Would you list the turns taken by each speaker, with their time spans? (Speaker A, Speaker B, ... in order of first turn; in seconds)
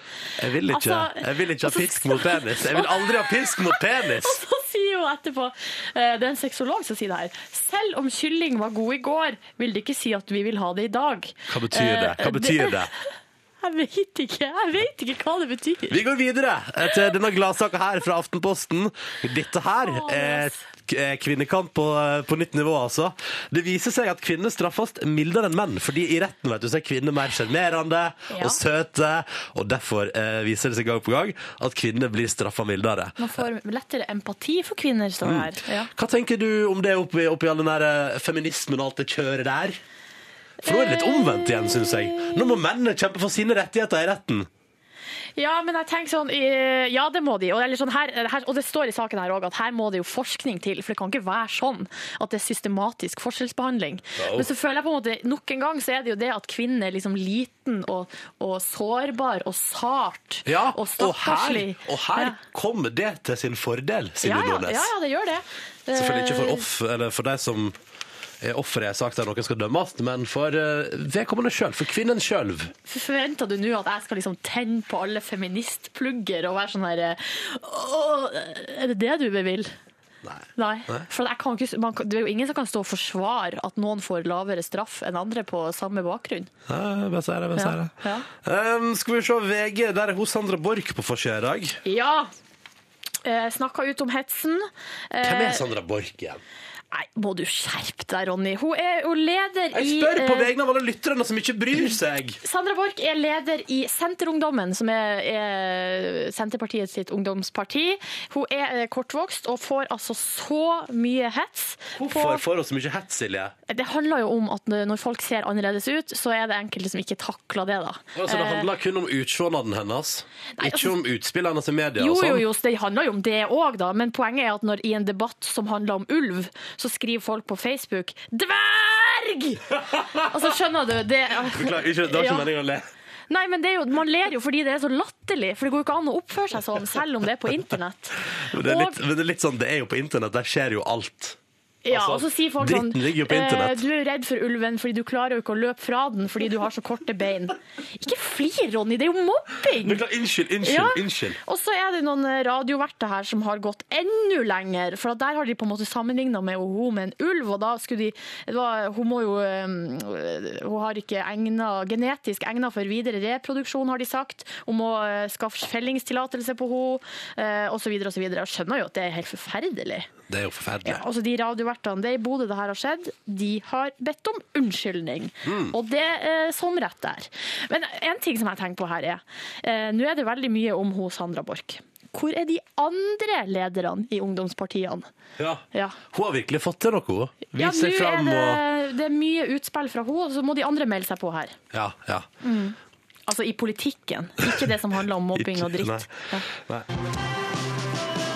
Speaker A: 0.4-4.4, 11.5-12.9, 15.9-33.3, 35.2-39.8, 40.6-44.5, 54.2-54.5, 60.4-64.9, 65.9-67.8, 68.4-72.7, 80.2-81.1, 86.7-91.8, 95.2-96.4, 99.7-102.4, 112.0-113.5, 118.1-122.5, 129.9-130.2, 131.4-132.8, 138.3-141.4, 141.9-143.8, 149.8-151.4, 170.3-171.0, 175.4-175.7, 185.4-188.6, 191.7-192.3, 195.3-196.9
Speaker B: 0.7-12.8, 13.6-16.0, 19.8-20.6, 28.3-28.6, 33.2-35.9, 40.6-42.4, 45.4-62.4, 64.2-66.6, 72.9-79.7, 80.5-86.5, 87.5-88.2, 91.8-92.3, 93.2-95.6, 96.9-100.5, 102.4-112.4, 113.7-118.7, 120.6-120.9, 122.0-132.5, 133.3-139.0, 141.8-150.0, 150.6-170.1, 170.8-185.1, 185.7-186.0, 187.5-191.5, 192.4-196.5